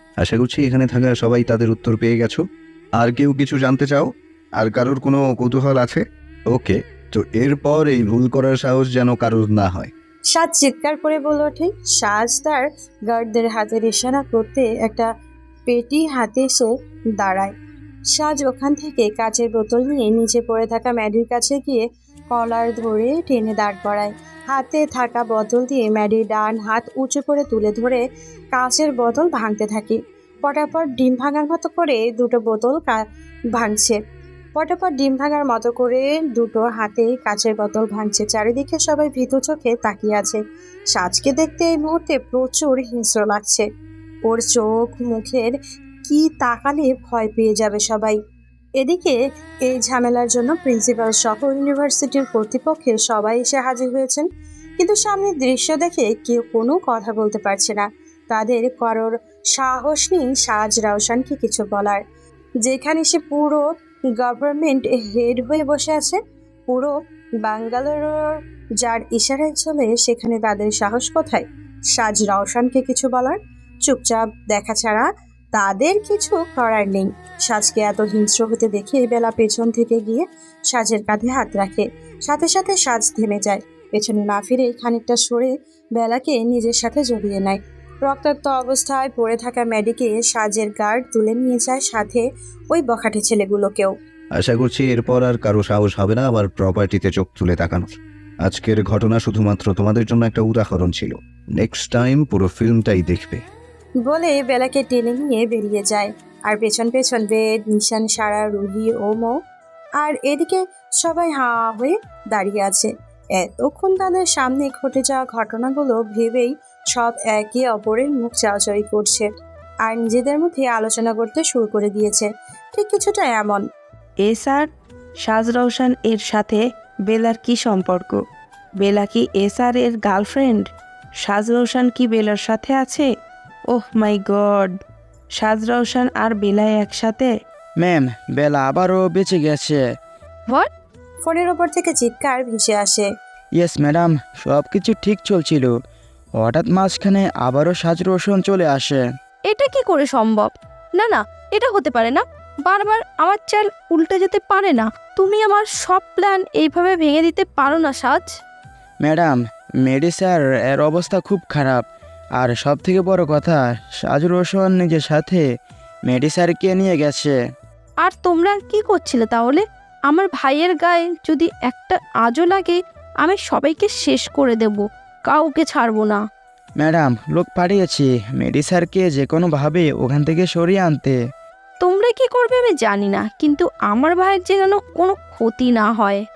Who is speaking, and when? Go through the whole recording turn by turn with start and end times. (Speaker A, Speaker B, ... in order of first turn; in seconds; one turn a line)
Speaker A: 0.2-2.4
Speaker A: 3.0-9.9
Speaker B: 10.3-15.1
Speaker B: 15.7-17.5
Speaker B: 18.1-28.0
Speaker B: 28.5-33.0
Speaker B: 33.5-34.0
Speaker B: 34.5-40.4
Speaker B: 40.9-43.6
Speaker B: 44.2-48.2
Speaker B: 48.8-54.2
Speaker B: 54.8-62.0
Speaker B: 62.6-63.6
Speaker B: 64.2-93.9
Speaker A: 94.3-103.4
Speaker B: 104.0-109.4
Speaker B: 110.0-119.3
Speaker B: 119.8-123.6
Speaker C: 124.2-128.2
Speaker C: 128.8-133.1
Speaker C: 133.7-134.8
Speaker C: 135.3-137.3
Speaker D: 137.8-139.8
Speaker B: 141.2-143.1
Speaker D: 143.6-145.7
Speaker D: 146.4-149.0
Speaker E: 149.5-158.3
Speaker D: 159.0-161.8
Speaker D: 162.4-165.4
Speaker D: 166.1-167.3
Speaker E: 168.0-176.2
Speaker D: 176.8-181.2
Speaker E: 181.8-186.2